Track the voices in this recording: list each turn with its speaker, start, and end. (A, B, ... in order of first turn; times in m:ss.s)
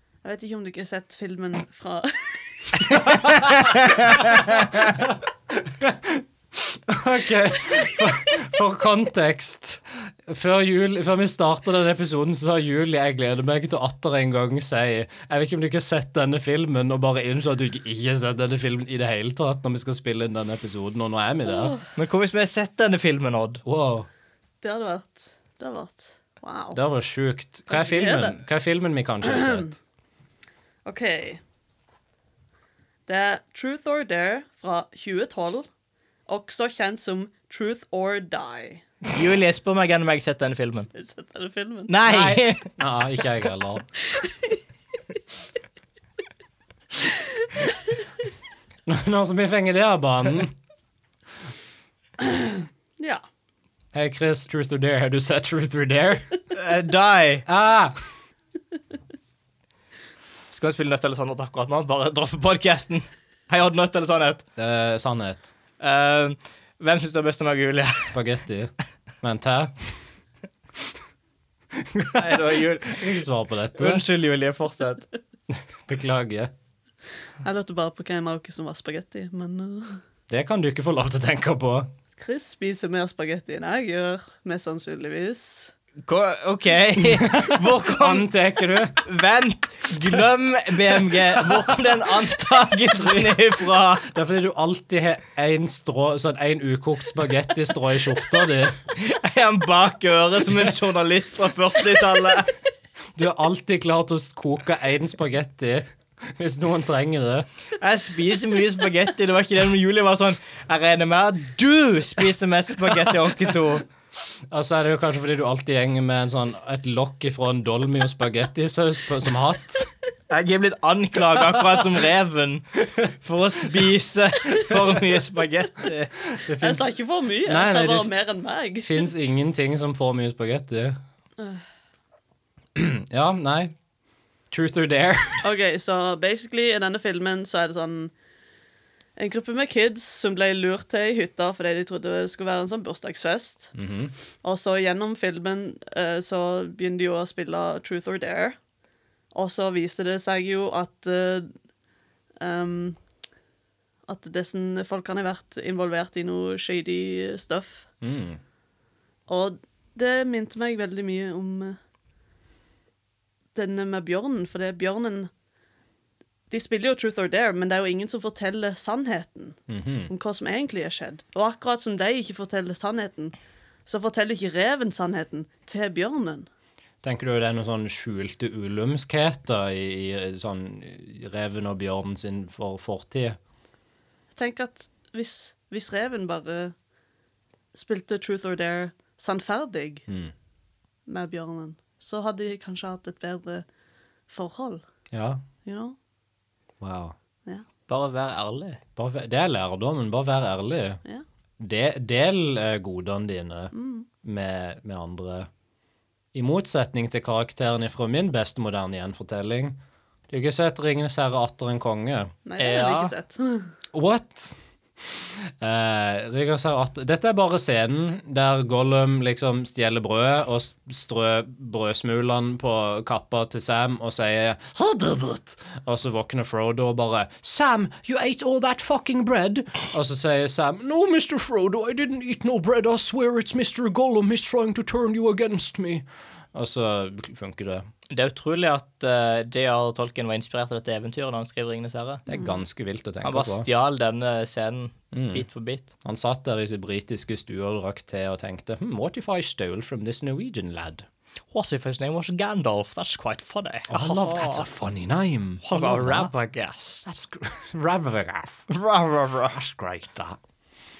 0:00.2-0:03.0 A
0:03.0-0:04.7 B
0:03.0-0:03.7 C
0:04.6-0:21.8 C
0:21.5-0:21.8 A
0:21.9-0:23.6 B
0:23.6-0:24.1 C
0:24.6-0:26.8 A
0:26.7-0:29.8 C
0:27.7-0:28.4 A
0:29.2-0:29.7 A
0:30.8-0:31.4 A
0:33.1-0:35.7 A
0:36.3-0:38.8 A
0:39.1-0:40.9 B
0:40.9-0:41.9 A
0:41.9-0:42.7 B
0:42.0-0:43.9 C
0:44.1-0:44.6 A
0:48.9-0:50.6 C
0:53.9-0:56.4 C
0:56.5-0:57.4 B
0:57.4-0:58.0 C
1:00.5-1:04.4 B
1:04.6-1:05.5 C
1:05.8-1:08.2 B
1:08.0-1:09.9 C
1:11.7-1:14.0 C
1:12.2-1:13.2 B
1:13.8-1:15.0 B
1:15.5-1:16.5 C
1:17.4-1:20.0 A
1:20.3-1:21.9 C
1:22.2-1:25.7 A
1:26.0-1:28.3 B
1:27.4-1:29.0 C
1:29.0-1:34.0 B
1:31.4-1:31.9 C
1:32.7-1:38.8 C
1:38.9-1:42.5 B
1:43.2-1:47.5 C
1:47.8-1:53.8 B
1:54.5-1:59.9 C
2:00.3-2:06.1 B
2:06.4-2:06.9 C
2:06.4-2:09.1 A
2:07.4-2:08.1 C
2:08.8-2:11.0 C
2:12.8-2:13.8 C
2:14.5-2:15.4 C
2:15.4-2:18.1 A
2:19.2-2:23.7 A
2:23.8-2:24.1 C
2:24.4-2:28.6 A
2:29.3-2:31.5 A
2:32.4-2:33.0 A
2:34.1-2:37.9 A
2:38.0-2:38.4 C
2:39.3-2:41.8 A
2:43.6-2:45.3 A
2:46.5-2:49.6 A
2:49.7-2:50.1 C
2:50.1-2:53.4 A
2:53.9-2:56.5 A
2:57.0-3:03.4 C
3:04.3-3:06.7 A
3:07.7-3:10.0 A
3:10.1-3:10.3 C
3:11.1-3:13.6 A
3:14.3-3:14.8 A
3:15.1-3:15.4 C
3:15.6-3:16.0 A
3:16.8-3:17.2 C
3:17.9-3:18.8 B
3:19.0-3:21.0 C
3:21.6-3:25.5 C
3:23.7-3:24.1 A
3:26.3-3:29.8 C
3:30.3-3:32.3 C
3:32.4-3:33.7 A
3:32.6-3:33.1 B
3:33.9-3:57.9 C
3:58.1-4:02.2 B
4:02.3-4:03.7 C
4:03.2-4:05.9 B
4:05.1-4:05.4 C
4:06.0-4:11.1 C
4:11.5-4:14.6 B
4:13.9-4:16.3 C
4:15.6-4:17.1 B
4:17.1-4:18.7 C
4:18.7-4:19.6 B
4:19.5-4:20.4 C